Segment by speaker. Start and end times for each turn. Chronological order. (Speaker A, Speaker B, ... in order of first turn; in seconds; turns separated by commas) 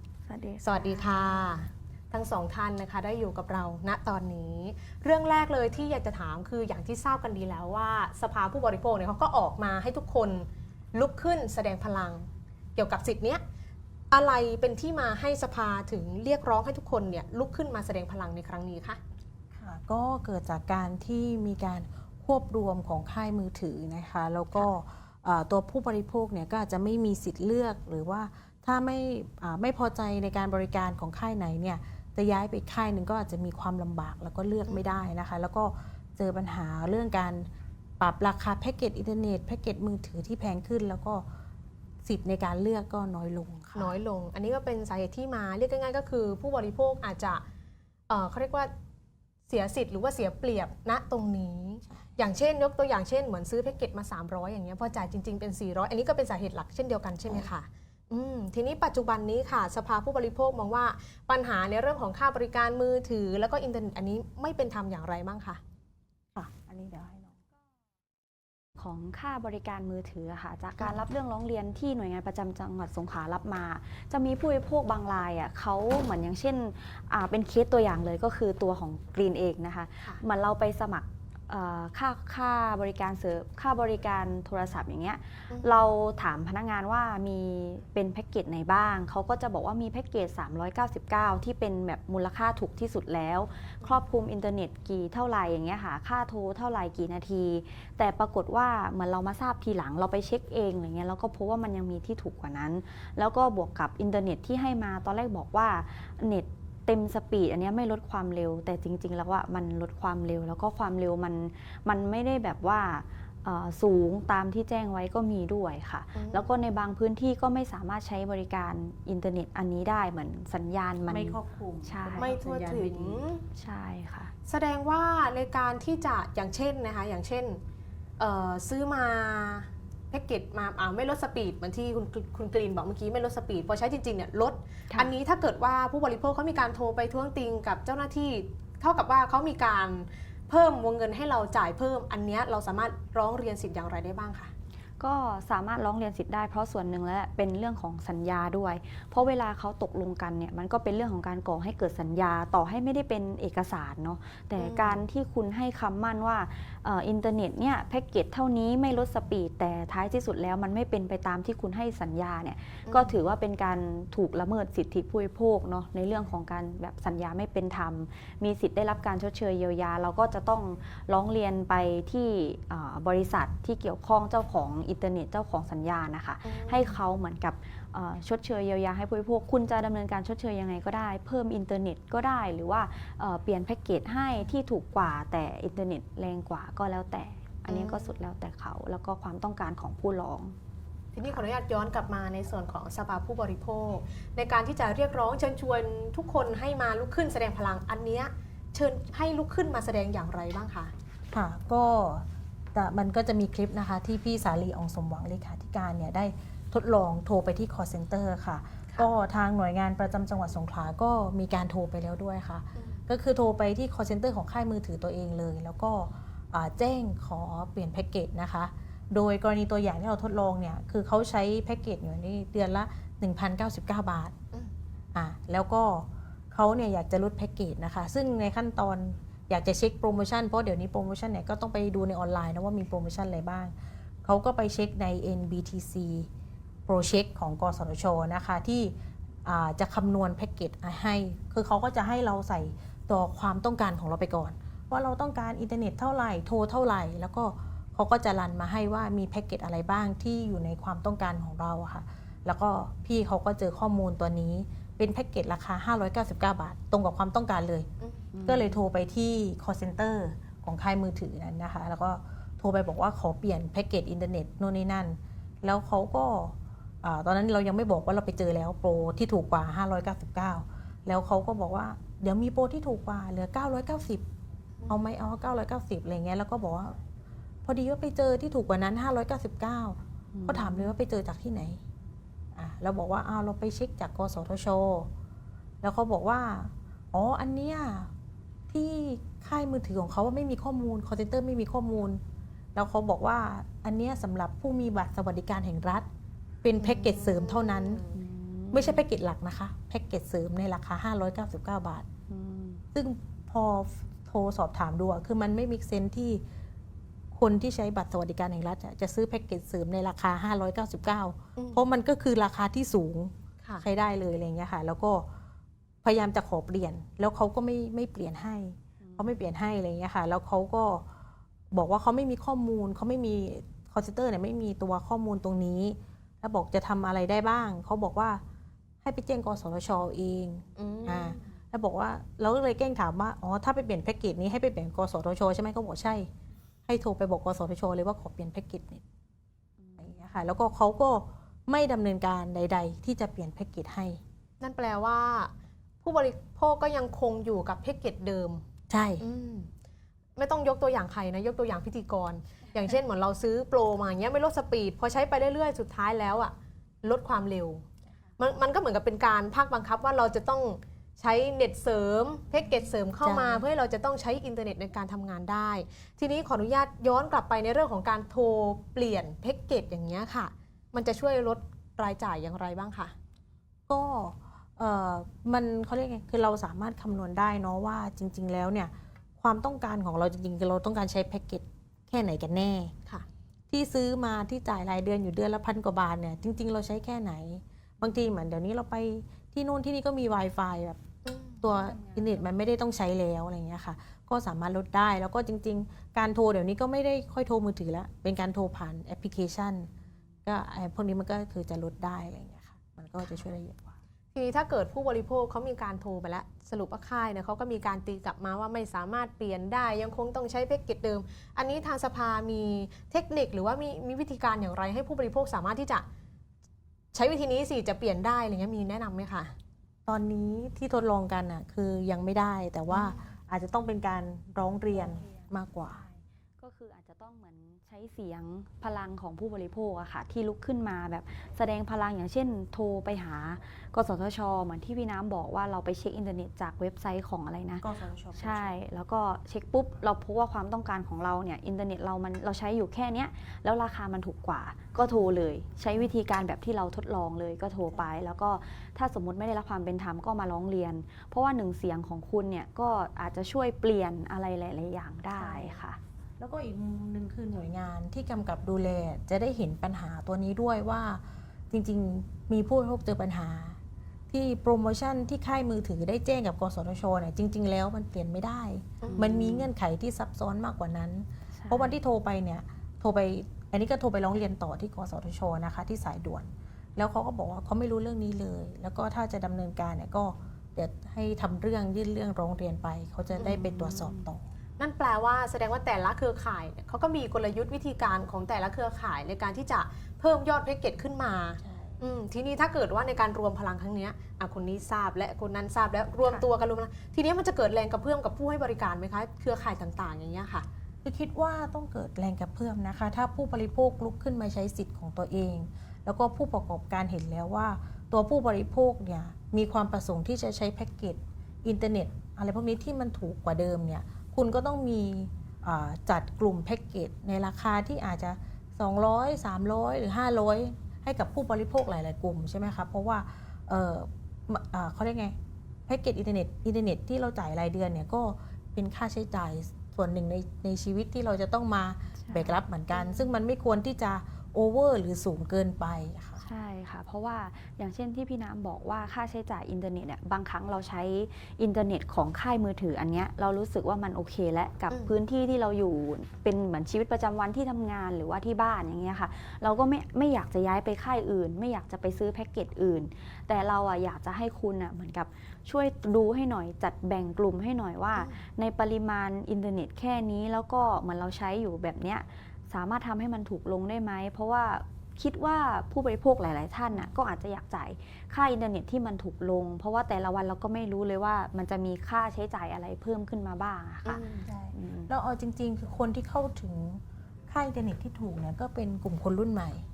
Speaker A: 0.2-1.6, Speaker B: 0.6-13.4, Speaker B: 14.1-19.0, Speaker C: 19.5-37.5, Speaker B: 34.6-35.0, Speaker C: 38.0-41.2, Speaker C: 42.0-44.0, Speaker B: 43.7-47.4, Speaker B: 48.1-48.7, Speaker B: 49.5-65.6, Speaker C: 66.3-67.3, Speaker A: 68.8-122.3, Speaker B: 85.5-85.8, Speaker B: 116.1-116.5, Speaker C: 121.1-123.2, Speaker B: 122.2-123.4, Speaker A: 123.5-124.3, Speaker B: 124.5-127.6, Speaker B: 128.2-144.5, Speaker A: 145.0-190.6, Speaker B: 154.6-155.0, Speaker B: 162.8-163.2, Speaker B: 176.4-177.0, Speaker B: 187.7-188.2, Speaker B: 191.1-200.9, Speaker C: 201.3-224.3, Speaker C: 225.1-236.3, Speaker C: 236.9-238.9, Speaker C: 239.4-257.9, Speaker A: 258.3-258.8, Speaker C: 258.4-274.2, Speaker C: 274.9-277.0, Speaker C: 277.6-281.8, Speaker A: 280.3-280.9, Speaker C: 282.5-285.1, Speaker C: 285.8-288.1, Speaker C: 288.7-292.2, Speaker C: 292.7-296.1, Speaker C: 296.6-298.1, Speaker B: 296.8-298.1, Speaker A: 298.1-299.0, Speaker C: 298.7-302.1, Speaker A: 302.3-302.8, Speaker C: 302.9-306.4, Speaker C: 307.3-315.3, Speaker B: 311.6-311.9, Speaker C: 316.0-321.0, Speaker A: 319.0-319.4, Speaker C: 321.7-328.4, Speaker C: 329.0-336.3, Speaker B: 330.8-331.4, Speaker C: 336.9-339.0, Speaker A: 339.8-340.2, Speaker C: 340.0-344.2, Speaker B: 344.6-345.5, Speaker B: 346.0-348.6, Speaker C: 348.9-349.2, Speaker B: 349.2-349.7, Speaker B: 350.4-356.5, Speaker B: 357.0-357.9, Speaker B: 358.4-373.1, Speaker C: 363.2-363.6, Speaker C: 373.9-382.9, Speaker C: 383.7-391.0, Speaker B: 391.2-391.6, Speaker C: 391.6-399.9, Speaker A: 391.7-392.4, Speaker C: 400.4-403.9, Speaker B: 404.3-416.0, Speaker B: 417.1-419.5, Speaker C: 420.1-426.0, Speaker B: 422.9-423.2, Speaker A: 425.9-456.0, Speaker C: 437.8-438.8, Speaker C: 455.3-455.8, Speaker C: 456.4-463.8, Speaker C: 464.3-484.4, Speaker A: 469.0-469.7, Speaker A: 471.5-471.9, Speaker B: 483.4-483.7, Speaker A: 483.4-484.3, Speaker B: 484.8-500.6, Speaker C: 491.6-491.9, Speaker C: 501.0-525.4, Speaker C: 525.9-536.4, Speaker A: 532.2-532.6, Speaker B: 532.9-533.2, Speaker A: 536.4-575.1, Speaker B: 544.9-545.1, Speaker B: 558.1-558.4, Speaker B: 574.0-574.5, Speaker C: 574.4-579.8